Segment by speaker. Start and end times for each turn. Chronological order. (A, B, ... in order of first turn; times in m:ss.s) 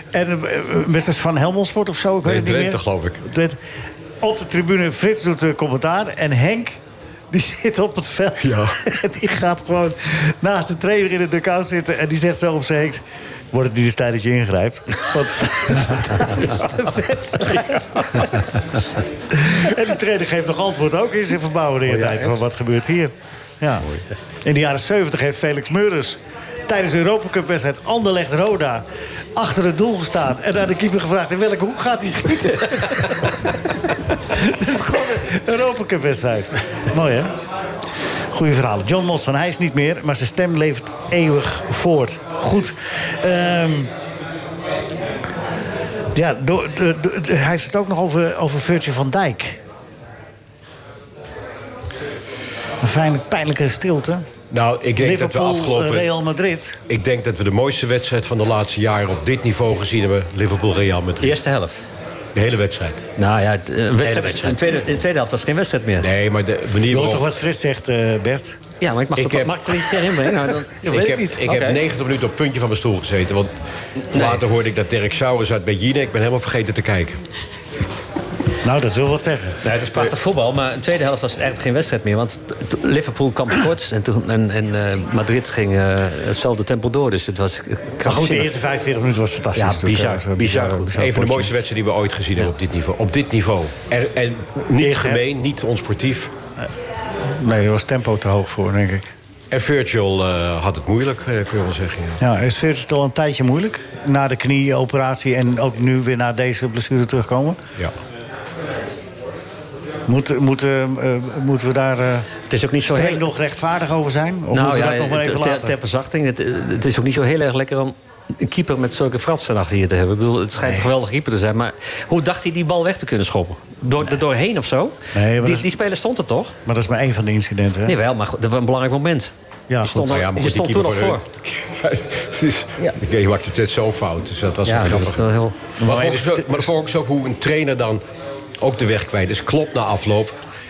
0:00.1-0:03.6 A
0:02.2-0:03.2 B
0:04.2-0:06.8 A
0:07.3-0:18.4 A
0:08.4-0:08.8 B
0:19.3-0:23.9 A
0:21.9-0:22.4 B
0:24.4-0:33.6 A
0:34.2-0:37.3 A
0:38.3-0:43.9 A
0:46.1-0:49.6 A
0:52.8-0:54.3 A
0:54.5-0:56.1 B
0:55.0-0:56.8 A
0:56.9-1:01.4 B
1:01.2-1:01.8 C
1:02.3-1:03.0 B
1:03.2-1:06.1 C
1:04.1-1:04.6 B
1:06.0-1:07.3 B
1:06.9-1:08.6 A
1:08.8-1:11.8 C
1:09.1-1:09.9 B
1:10.8-1:11.4 A
1:10.8-1:13.5 B
1:14.1-1:14.4 C
1:14.1-1:17.2 B
1:18.6-1:19.6 A
1:19.6-1:28.5 C
1:28.0-1:31.5 A
1:29.6-1:31.2 C
1:31.0-1:36.3 B
1:34.8-1:35.2 A
1:37.3-1:39.1 A
1:39.5-1:42.2 B
1:42.2-1:47.6 A
1:50.1-1:55.7 A
1:52.5-1:53.2 C
1:54.5-2:06.5 C
2:00.6-2:00.9 A
2:05.1-2:05.7 A
2:06.6-2:08.0 A
2:07.8-2:11.2 C
2:09.7-2:10.2 A
2:10.0-2:15.3 B
2:14.6-2:15.6 C
2:15.8-2:16.7 A
2:15.8-2:18.0 B
2:18.6-2:20.4 B